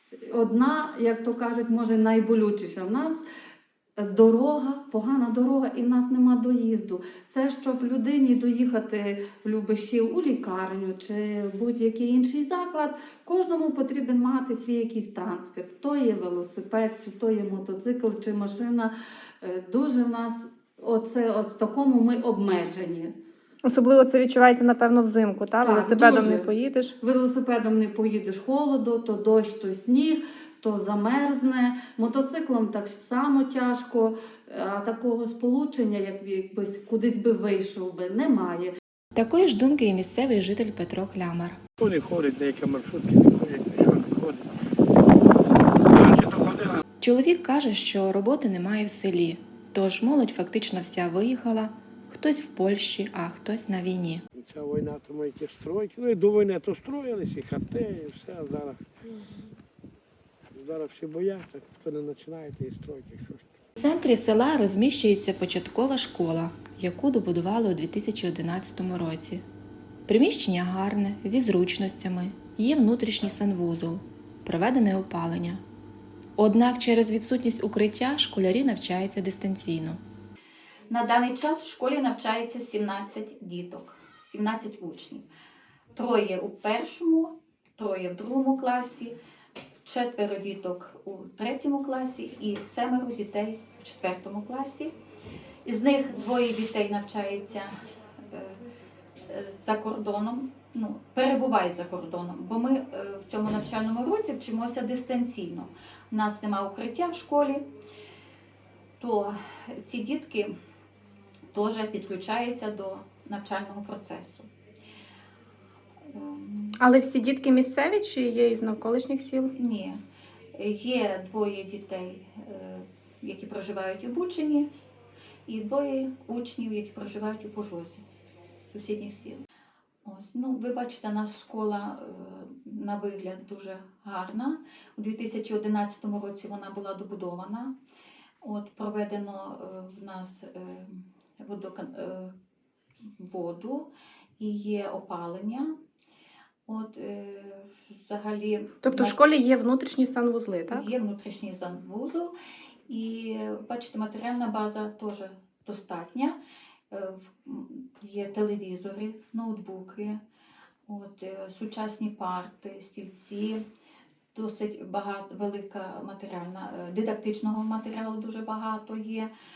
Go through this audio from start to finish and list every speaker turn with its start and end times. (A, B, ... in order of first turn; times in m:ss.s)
0:00.2-0:03.2 A
0:04.0-0:23.1 A
0:23.6-0:26.9 B
0:25.6-0:26.5 A
0:27.0-0:38.7 A
0:39.1-0:41.6 C
0:41.8-0:44.5 D
0:45.8-0:46.8 D
0:47.0-0:54.2 C
0:54.3-0:58.9 D
1:00.5-1:03.5 D
1:03.8-1:09.4 C
1:10.1-1:15.6 C
1:16.4-1:20.0 C
1:20.9-1:25.2 E
1:25.9-1:29.2 E
1:29.8-1:34.9 E
1:35.6-1:38.6 E
1:39.2-1:47.6 E
1:49.0-1:50.5 E
1:51.5-1:54.5 E
1:56.1-1:56.8 E
1:56.8-1:59.5 B
1:59.5-2:00.0 E
2:00.6-2:04.7 E
2:05.5-2:08.0 E
2:08.6-2:09.4 E
2:10.0-2:17.8 E
2:18.4-2:22.3 E
2:23.2-2:25.7 E
2:26.7-2:29.2 E
2:28.8-2:30.8 B
2:30.7-2:32.3 E
2:32.9-2:36.4 E
2:36.9-2:40.2 E
2:40.9-2:43.6 E
2:44.3-2:49.3 E